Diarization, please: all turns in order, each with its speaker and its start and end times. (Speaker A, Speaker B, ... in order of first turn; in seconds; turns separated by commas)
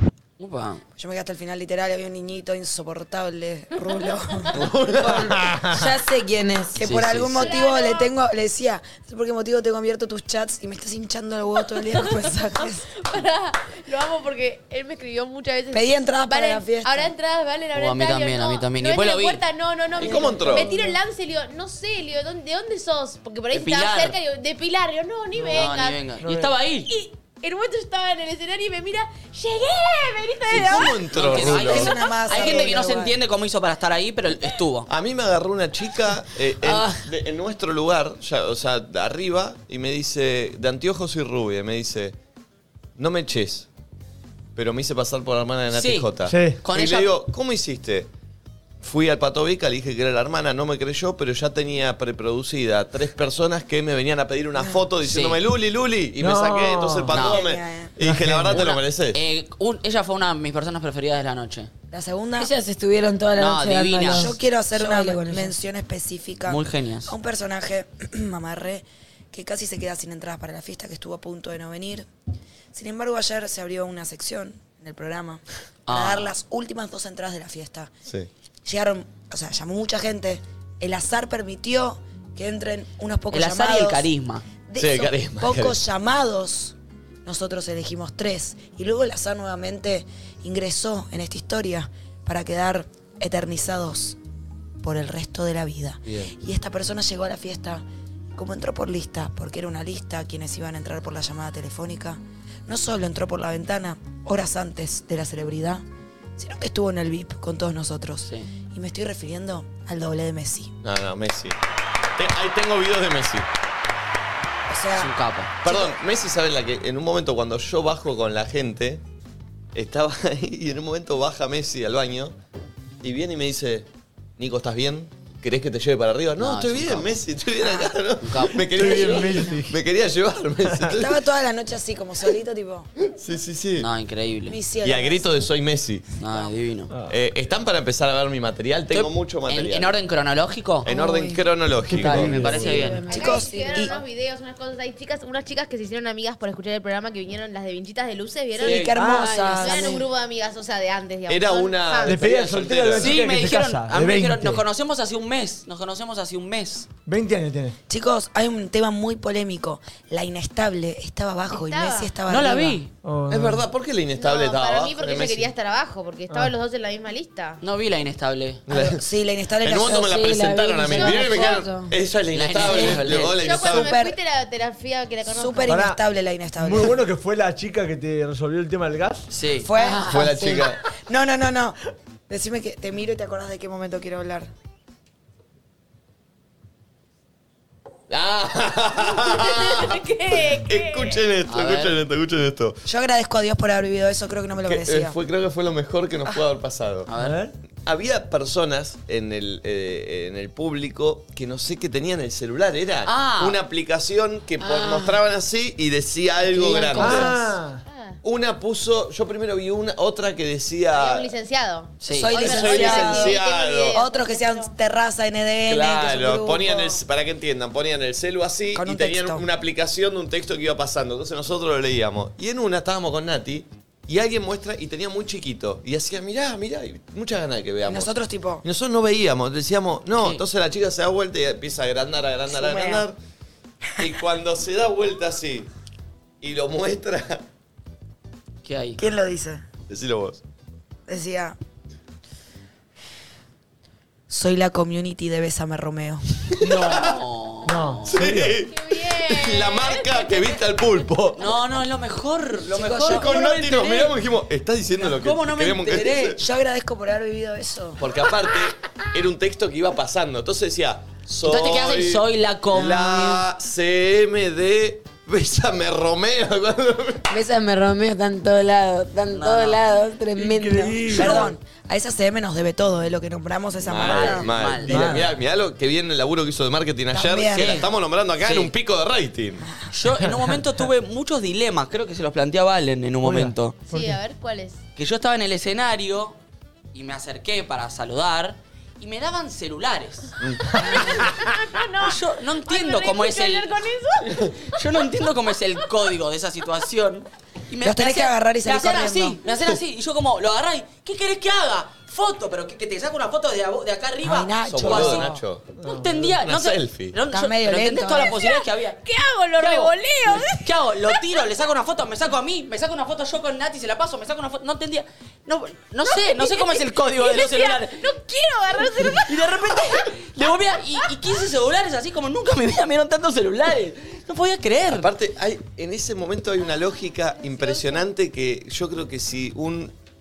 Speaker A: 0.4-0.8, Speaker B: 1.0-4.6, Speaker C: 4.6-5.1, Speaker D: 5.0-7.1, Speaker B: 6.8-12.9, Speaker A: 6.8-7.5, Speaker E: 7.4-8.1, Speaker E: 11.8-26.0, Speaker B: 15.7-17.1, Speaker A: 17.8-19.4, Speaker A: 20.0-20.6, Speaker C: 20.0-20.7, Speaker A: 23.5-24.1, Speaker A: 25.5-26.9, Speaker E: 26.9-32.7, Speaker C: 30.5-31.9, Speaker A: 30.6-34.9, Speaker B: 31.5-33.2, Speaker C: 34.9-42.2, Speaker A: 36.6-37.0, Speaker C: 43.0-43.7, Speaker C: 44.5-48.1, Speaker A: 45.7-46.1, Speaker F: 46.3-46.6, Speaker A: 46.6-47.1, Speaker C: 48.8-59.2, Speaker B: 54.6-54.9, Speaker A: 55.0-55.4, Speaker F: 56.2-57.1, Speaker A: 57.1-57.4, Speaker B: 57.1-57.9, Speaker F: 58.0-58.7, Speaker A: 58.5-61.7, Speaker B: 61.9-62.5, Speaker D: 62.4-65.5, Speaker A: 63.4-64.3, Speaker B: 64.1-72.1, Speaker A: 66.5-67.1, Speaker B: 72.7-77.9, Speaker A: 75.9-76.3, Speaker B: 78.7-84.1, Speaker A: 83.3-84.4, Speaker B: 84.7-94.2, Speaker C: 84.8-85.8, Speaker B: 94.8-97.8, Speaker B: 98.3-105.8, Speaker B: 106.4-110.7, Speaker C: 110.8-111.5, Speaker C: 112.2-113.5, Speaker B: 114.7-115.1, Speaker A: 115.0-115.5, Speaker C: 115.6-119.0, Speaker B: 115.7-115.9, Speaker C: 119.7-122.3, Speaker C: 123.0-131.2, Speaker A: 126.4-127.2, Speaker B: 127.6-127.9, Speaker A: 128.2-129.3, Speaker F: 128.8-129.8, Speaker B: 130.9-132.9, Speaker C: 133.2-133.9, Speaker A: 133.8-134.6, Speaker B: 134.5-135.4, Speaker C: 134.8-136.1, Speaker A: 136.2-136.9, Speaker C: 137.1-140.0, Speaker A: 138.9-140.9, Speaker C: 140.8-142.5, Speaker D: 140.9-141.4, Speaker F: 141.9-142.9, Speaker A: 141.9-143.0, Speaker D: 142.3-143.9, Speaker B: 143.1-144.0, Speaker E: 143.1-148.9, Speaker B: 148.6-150.0, Speaker A: 148.6-149.0, Speaker D: 149.0-150.0, Speaker F: 149.0-149.4, Speaker E: 149.5-152.4, Speaker C: 151.3-153.2, Speaker F: 152.0-154.6, Speaker A: 153.0-156.9, Speaker F: 157.1-157.8, Speaker B: 157.9-162.8, Speaker E: 161.5-162.1, Speaker A: 162.3-162.9, Speaker F: 163.0-163.7, Speaker C: 163.3-165.5, Speaker E: 164.2-167.6, Speaker A: 167.6-168.6, Speaker C: 168.7-169.0, Speaker B: 168.7-170.1, Speaker C: 169.6-174.0, Speaker D: 169.7-171.9, Speaker E: 170.9-171.7, Speaker A: 172.3-173.4, Speaker E: 172.7-175.8, Speaker B: 173.7-174.2, Speaker B: 175.3-177.0, Speaker F: 175.7-176.0, Speaker F: 176.6-179.2, Speaker A: 179.3-179.7, Speaker B: 179.6-180.5, Speaker D: 179.8-180.7, Speaker C: 180.1-180.8, Speaker B: 181.1-181.8, Speaker B: 182.3-184.5, Speaker C: 188.1-190.0, Speaker E: 189.2-191.3, Speaker C: 190.5-192.8, Speaker A: 191.5-192.0, Speaker B: 192.8-195.2, Speaker C: 194.7-197.1, Speaker A: 197.1-197.4, Speaker F: 197.2-197.5, Speaker C: 197.8-207.3, Speaker A: 203.1-203.6, Speaker D: 204.6-205.2, Speaker F: 206.9-207.8, Speaker E: 207.9-208.2, Speaker C: 208.2-211.3, Speaker E: 210.9-214.7, Speaker A: 212.0-212.6, Speaker B: 212.2-213.4, Speaker C: 212.3-214.0, Speaker B: 213.9-217.0, Speaker C: 215.7-233.2, Speaker B: 218.7-219.4, Speaker B: 227.9-228.7, Speaker B: 232.5-233.0, Speaker C: 234.0-235.7, Speaker C: 236.4-237.4, Speaker A: 238.6-239.0, Speaker B: 239.0-239.6, Speaker C: 239.9-240.4, Speaker B: 241.1-241.6, Speaker B: 244.3-246.2, Speaker C: 246.7-247.2, Speaker A: 246.7-248.2, Speaker F: 247.7-248.6, Speaker C: 248.1-251.4, Speaker E: 248.6-250.8, Speaker A: 251.4-254.1, Speaker B: 252.7-253.4, Speaker C: 253.0-256.4, Speaker A: 255.0-256.4, Speaker B: 256.4-258.0, Speaker C: 258.0-267.2, Speaker A: 261.4-263.4, Speaker D: 267.3-271.5, Speaker A: 269.3-269.8, Speaker F: 270.4-271.5, Speaker B: 271.1-274.5, Speaker C: 273.9-279.7, Speaker A: 273.9-275.2, Speaker F: 274.9-275.3, Speaker B: 277.1-277.9, Speaker A: 277.6-277.9, Speaker A: 278.4-278.7, Speaker A: 279.9-283.8, Speaker F: 283.2-284.2, Speaker E: 283.9-284.8, Speaker A: 285.0-286.4, Speaker A: 286.9-290.3, Speaker C: 290.4-290.8, Speaker E: 290.8-294.5, Speaker A: 292.0-293.7, Speaker A: 294.2-305.3, Speaker B: 297.8-299.4, Speaker B: 304.2-305.4, Speaker C: 304.7-305.7, Speaker F: 305.8-306.2, Speaker A: 305.8-309.0, Speaker C: 306.4-307.2, Speaker B: 307.3-308.4, Speaker E: 309.1-311.1, Speaker A: 309.6-309.9, Speaker A: 310.5-318.0, Speaker E: 316.1-319.8, Speaker A: 319.2-325.1, Speaker C: 324.9-329.9, Speaker E: 327.4-328.1